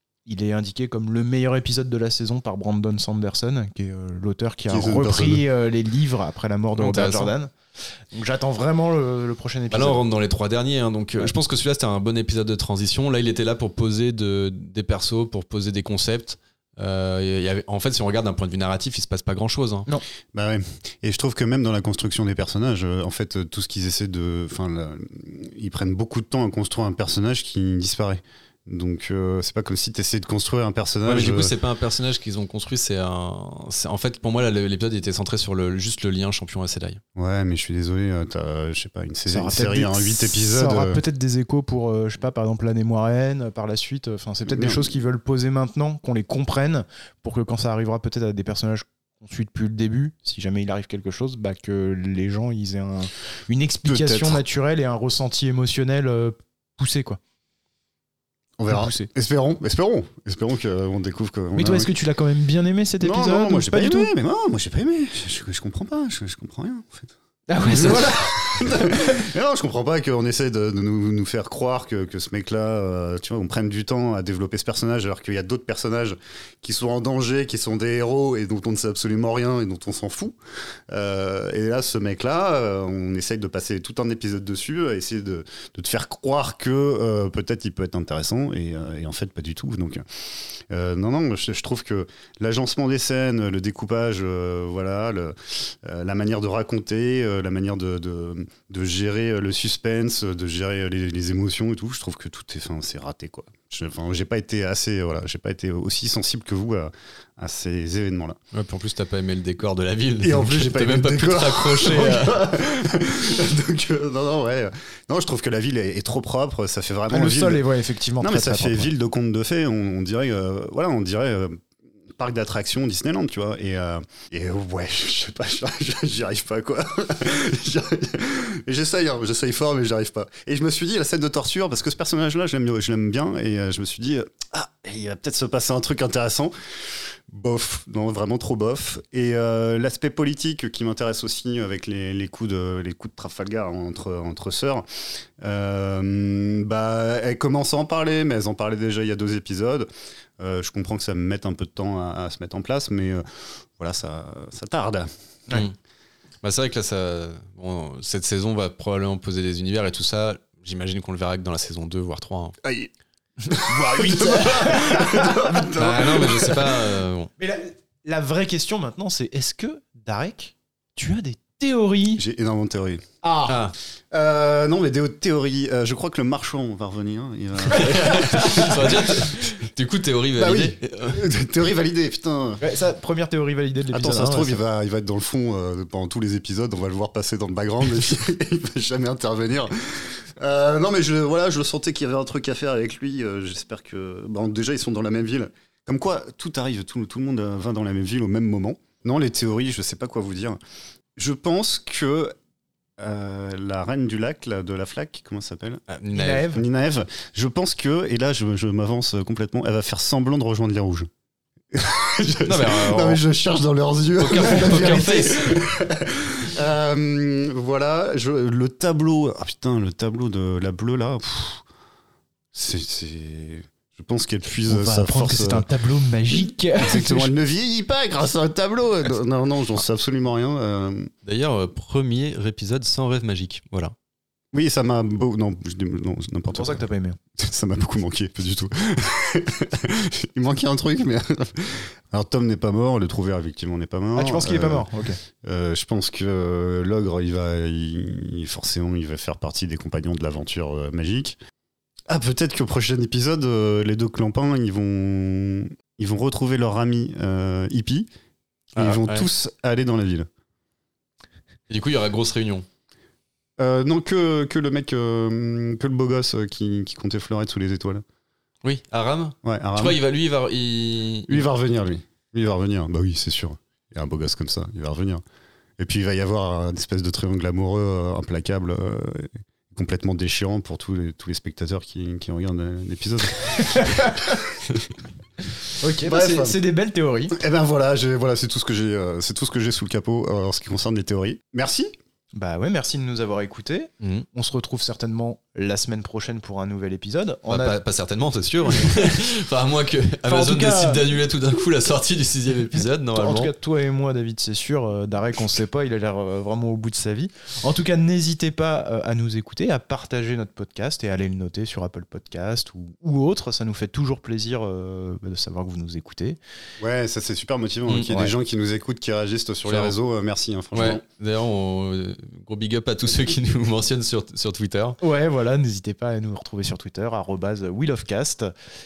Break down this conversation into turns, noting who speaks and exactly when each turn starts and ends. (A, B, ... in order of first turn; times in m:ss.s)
0:00.3-0:07.5 A
0:04.7-0:05.4 B
0:06.8-0:07.3 C
0:08.1-0:10.0 A
0:09.7-0:19.9 C
0:20.3-0:31.5 B
0:31.1-0:37.0 C
0:37.2-0:41.0 B
0:39.3-0:57.2 A
0:44.5-0:44.9 B
0:53.8-0:54.4 B
0:58.6-1:01.9 B
0:58.7-0:59.1 A
1:01.6-1:04.1 A
1:03.0-1:07.1 B
1:07.5-1:09.0 A
1:07.7-1:20.4 B
1:20.9-1:30.0 B
1:30.7-1:48.4 B
1:48.5-1:52.5 C
1:50.2-1:57.6 B
1:57.1-1:58.9 A
1:58.2-2:01.6 B
2:02.2-2:24.8 B
2:25.4-2:29.9 B
2:30.4-2:33.2 B
2:33.8-2:35.1 B
2:36.4-2:42.6 C
2:42.6-2:42.9 B
2:43.4-2:45.7 A
2:43.5-2:46.7 B
2:45.8-2:47.3 C
2:47.4-2:52.2 A
2:52.2-2:53.0 B
2:53.2-2:53.6 A
2:53.5-2:53.8 C
2:54.1-2:59.1 B
2:57.7-2:59.1 A
2:57.7-3:01.2 C
3:00.4-3:02.6 B
3:02.6-3:04.6 A
3:03.9-3:20.6 B
3:21.2-3:22.4 B
3:23.0-3:25.8 B
3:25.9-3:26.5 C
3:26.1-3:26.6 A
3:26.5-3:31.1 B
3:31.7-3:41.6 B
3:32.4-3:33.2 C
3:34.2-3:35.6 C
3:42.5-3:45.7 B
3:44.7-3:47.3 A
3:46.3-3:51.1 B
3:51.2-3:53.9 C
3:54.5-3:56.8 B
3:56.5-3:57.2 A
3:57.4-4:04.9 B
4:04.2-4:05.2 A
4:05.4-4:11.4 B
4:12.1-4:18.1 B
4:18.8-4:19.3 C
4:18.8-4:20.3 B
4:21.7-4:22.7 C
4:23.6-4:28.0 B
4:28.6-4:31.5 C
4:29.4-4:30.0 B
4:31.3-4:35.2 B
4:35.8-4:44.6 B
4:43.5-4:44.4 A
4:45.8-4:47.4 A
4:46.0-4:46.6 B
4:47.3-4:51.9 B
4:52.4-4:57.8 A
4:54.0-4:54.3 C
4:57.5-5:03.5 C
5:00.3-5:01.1 A
5:03.1-5:16.4 A
5:16.8-5:21.0 B
5:17.9-5:18.2 C
5:18.1-5:18.3 A
5:19.7-5:20.0 C
5:20.7-5:25.0 C
5:25.0-5:28.5 A